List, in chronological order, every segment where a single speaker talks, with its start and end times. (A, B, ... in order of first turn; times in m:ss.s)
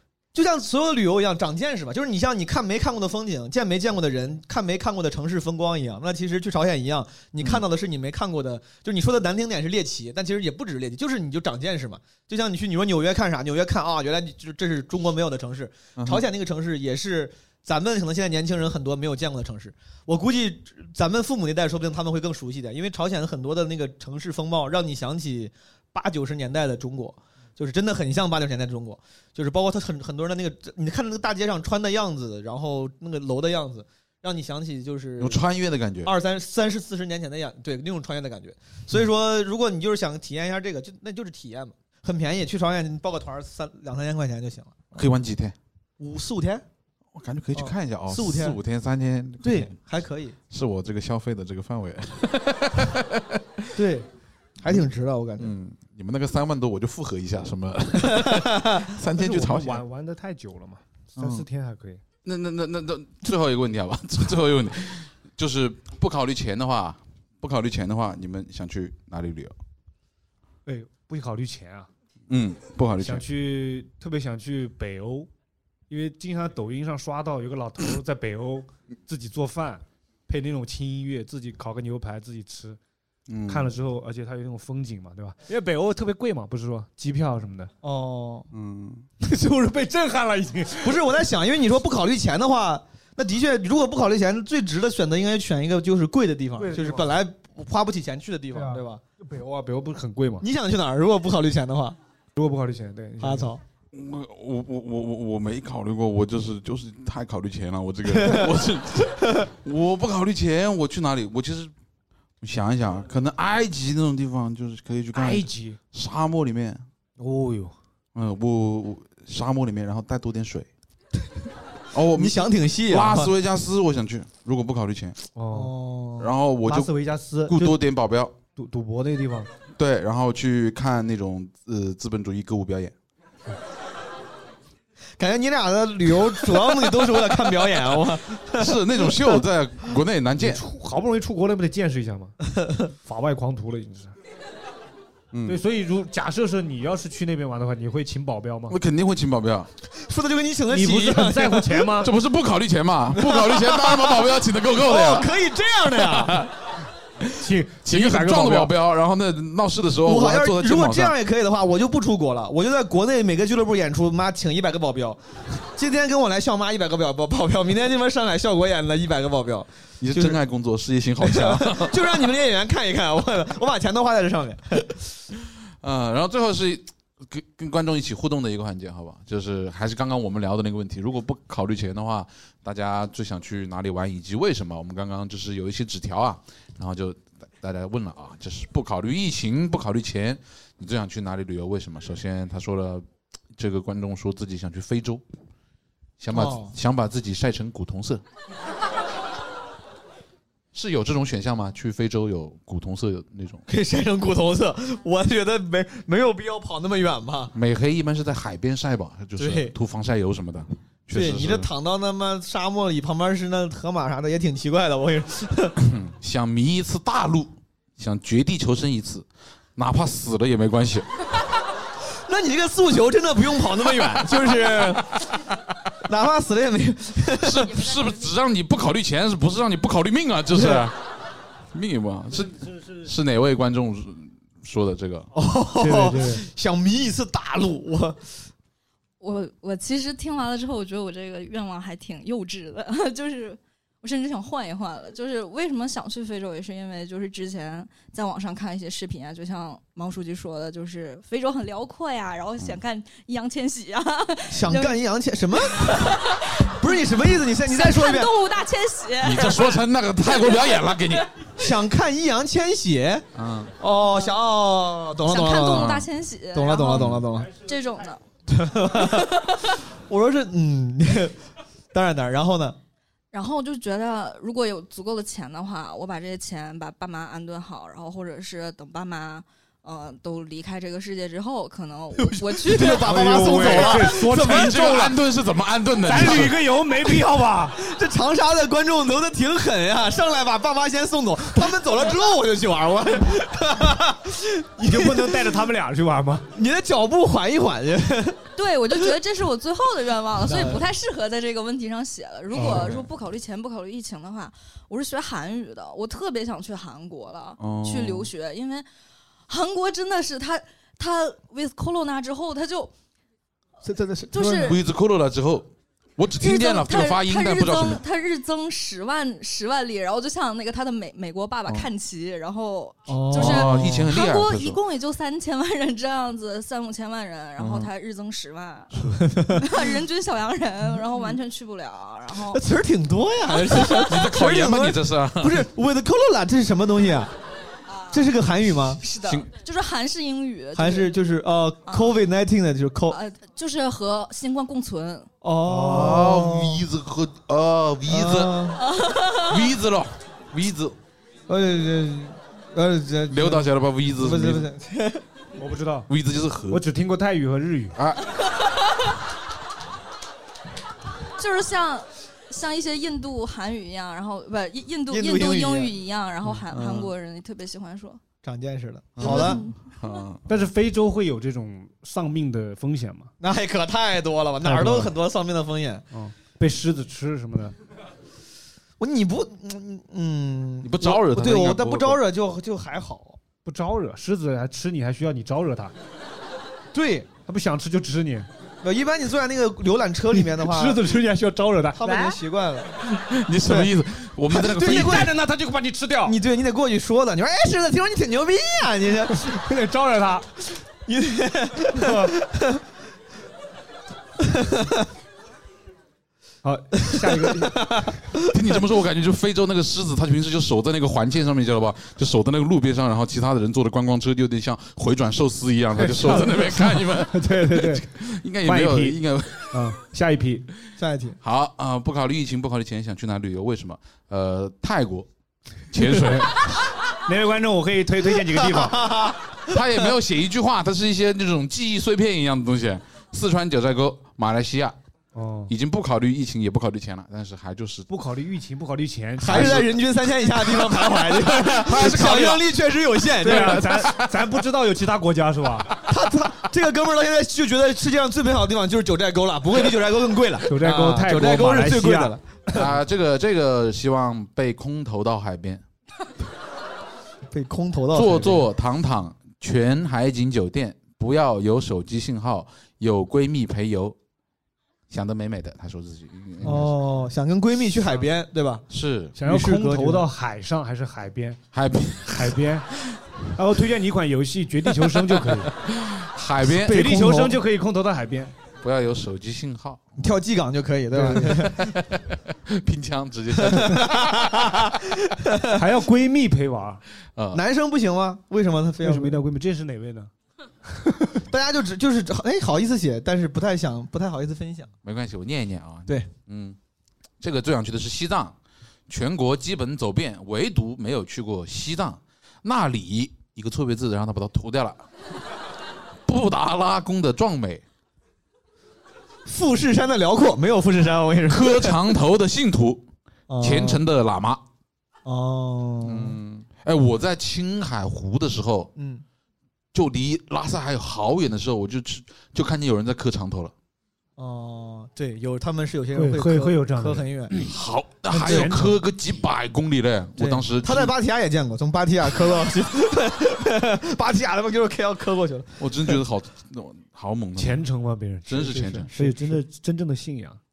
0:00.3-0:35.4 A
0:16.0-0:16.2 B
0:35.2-0:36.1 B
0:36.0-0:45.1 A
0:45.0-0:45.6 B
0:46.0-0:46.6 A
0:47.1-0:49.7 B
0:47.6-0:48.6 A
0:49.4-0:50.4 A
0:50.5-0:53.8 B
0:53.7-0:54.1 A
0:54.6-0:55.5 A
0:55.4-0:59.8 B
0:58.3-0:58.8 A
0:59.2-1:02.0 C
1:01.2-1:01.4 B
1:02.2-1:09.6 B
1:10.7-1:11.9 C
1:12.3-1:13.3 B
1:13.0-1:15.3 C
1:15.9-1:22.8 C
1:23.3-1:23.7 B
1:23.5-1:27.7 C
1:27.8-1:28.5 A
1:28.5-1:29.0 B
1:29.2-1:31.0 C
1:30.8-1:39.0 A
1:36.6-1:37.1 C
1:38.5-1:40.5 C
1:40.4-1:42.0 A
1:42.4-1:43.5 C
1:43.2-1:43.6 A
1:43.9-1:51.7 B
1:48.2-1:48.5 A
1:52.4-1:56.8 B
1:55.2-1:55.8 C
1:57.2-1:57.8 C
1:58.1-2:00.7 B
2:01.9-2:05.2 B
2:02.2-2:03.3 A
2:05.4-2:05.7 C
2:05.5-2:06.3 A
2:06.2-2:06.9 B
2:06.7-2:07.6 C
2:07.5-2:08.4 B
2:08.6-2:09.5 C
2:09.8-2:12.9 B
2:15.2-2:19.4 A
2:18.6-2:20.6 B
2:20.4-2:22.4 C
2:23.0-2:24.1 C
2:25.3-2:25.6 B
2:25.5-2:28.8 C
2:28.7-2:29.7 B
2:29.9-2:31.9 A
2:30.7-2:32.1 C
2:32.0-2:35.3 B
2:33.2-2:36.5 A
2:35.9-2:36.5 B
2:37.2-2:41.2 B
2:37.4-2:38.7 C
2:40.0-2:50.4 A
2:50.0-2:52.0 B
2:51.2-2:55.0 A
2:55.8-3:15.2 B
3:16.2-3:18.2 B
3:16.3-3:16.7 A
3:20.7-3:23.6 B
3:23.7-3:27.5 A
3:27.5-3:31.7 B
3:29.4-3:29.8 A
3:31.1-3:35.8 A
3:35.8-3:41.1 B
3:42.3-3:45.3 A
3:46.0-3:47.8 A
3:47.4-3:51.0 B
3:50.5-3:50.9 A
3:51.7-3:55.3 B
3:55.3-3:58.3 A
3:55.8-3:56.4 C
3:59.2-4:15.0 D
4:14.5-4:18.4 A
4:15.7-4:16.6 D
4:17.6-4:19.8 D
4:19.2-4:21.3 B
4:20.3-4:21.2 D
4:21.6-4:23.3 A
4:23.4-4:23.7 B
4:23.8-4:27.6 A
4:25.3-4:28.2 D
4:25.7-4:26.1 B
4:26.9-4:27.2 B
4:28.5-4:31.4 A
4:31.9-4:32.8 A
4:33.3-4:43.1 D
4:42.2-4:45.1 A
4:42.8-4:45.1 C
4:43.6-4:46.6 B
4:46.1-4:47.8 C
4:47.8-4:55.5 A
4:54.8-4:56.5 C
4:56.5-4:58.5 A
4:58.6-5:08.9 D
5:00.4-5:00.9 A
5:02.5-5:03.1 A
5:07.6-5:08.3 B
5:09.5-5:12.9 D
5:13.8-5:14.8 A
5:14.3-5:14.8 D
5:14.5-5:18.0 B
5:16.4-5:28.9 D
5:23.1-5:24.2 A
5:23.3-5:24.8 B
5:27.6-5:27.9 B
5:28.9-5:29.4 B
5:29.2-5:29.9 A
5:29.5-5:32.6 D
5:31.0-5:31.4 A
5:32.4-5:37.3 A
5:33.5-5:34.0 D
5:33.9-5:35.7 B
5:37.9-5:38.3 D
5:38.1-5:39.5 A
5:39.0-5:41.2 D
5:40.7-5:43.2 A
5:41.9-5:42.2 D
5:43.1-5:45.3 D
5:45.4-5:46.8 A
5:45.7-5:46.2 C
5:45.8-5:48.7 B
5:48.1-5:48.8 A
5:48.8-5:49.7 D
5:49.5-5:51.0 B
5:51.5-5:55.2 A
5:53.3-5:54.7 B
5:55.6-5:56.1 C
5:56.1-5:56.8 B
5:56.7-5:58.0 C
5:58.0-5:58.3 B
6:01.4-6:08.2 D
6:05.1-6:06.0 A
6:06.5-6:07.1 B
6:08.4-6:09.7 A
6:09.2-6:10.4 B
6:09.2-6:09.7 D
6:10.5-6:13.3 C
6:13.4-6:16.0 A
6:14.6-6:15.1 C
6:16.1-6:17.8 C
6:19.0-6:23.4 A
6:20.8-6:22.2 B
6:23.6-6:25.9 C
6:26.9-6:27.3 A
6:27.5-6:28.5 C
6:28.8-6:31.1 A
6:30.3-6:32.4 C
6:32.0-6:32.9 A
6:33.1-6:35.3 B
6:34.5-6:35.3 A
6:34.8-6:36.4 C
6:36.2-6:39.6 A
6:39.4-6:40.5 C
6:41.0-6:42.8 A
6:41.9-6:42.3 C
6:44.4-6:45.0 A
6:46.6-6:48.1 C
6:47.1-6:48.1 A
6:48.5-6:59.9 B
6:56.0-6:58.0 C
6:58.6-6:59.2 C
6:59.7-7:00.7 C
7:01.0-7:01.4 A
7:01.4-7:05.3 B
7:05.9-7:06.7 B
7:06.0-7:06.5 C
7:07.3-7:09.1 C
7:08.7-7:09.8 A
7:09.7-7:15.0 B
7:15.4-7:15.7 C
7:15.7-7:18.1 B
7:18.1-7:19.9 C
7:19.4-7:24.1 A
7:19.5-7:19.9 B
7:21.0-7:22.6 B
7:23.4-7:26.0 C
7:23.5-7:24.3 B
7:26.0-7:32.8 A
7:30.7-7:32.3 C
7:32.8-7:35.8 B
7:37.5-7:38.6 A
7:38.1-7:44.2 B
7:45.1-7:46.9 B
7:46.6-7:48.8 A
7:48.9-7:49.4 B
7:49.4-7:51.6 C
7:49.4-7:50.3 A
7:51.7-7:53.2 B
7:52.3-7:52.9 C
7:53.6-7:55.7 C
7:55.0-7:57.1 B
7:56.7-7:57.6 A
7:56.8-7:58.5 C
7:58.8-8:00.3 B
8:00.2-8:01.9 A
8:01.1-8:01.7 C
8:01.6-8:04.6 B
8:03.6-8:05.7 A
8:05.7-8:07.0 C
8:07.4-8:07.6 B
8:07.5-8:09.4 A
8:09.0-8:10.3 C
8:10.8-8:11.4 C
8:11.5-8:14.9 A
8:15.0-8:16.8 B
8:17.4-8:18.6 B
8:19.1-8:25.0 B
8:26.3-8:27.8 B
8:29.5-8:32.0 A
8:31.5-8:33.0 B
8:33.5-8:34.0 A
8:33.6-8:34.6 B
8:35.3-8:36.4 A
8:36.0-8:38.9 B
8:39.0-8:39.2 A
8:39.9-8:43.7 B
8:44.4-8:47.7 A
8:46.2-8:47.7 C
8:47.6-8:51.1 B
8:48.3-8:49.0 C
8:50.4-8:56.2 A
8:55.8-8:57.9 B
8:57.6-9:00.6 C
8:58.5-8:59.1 B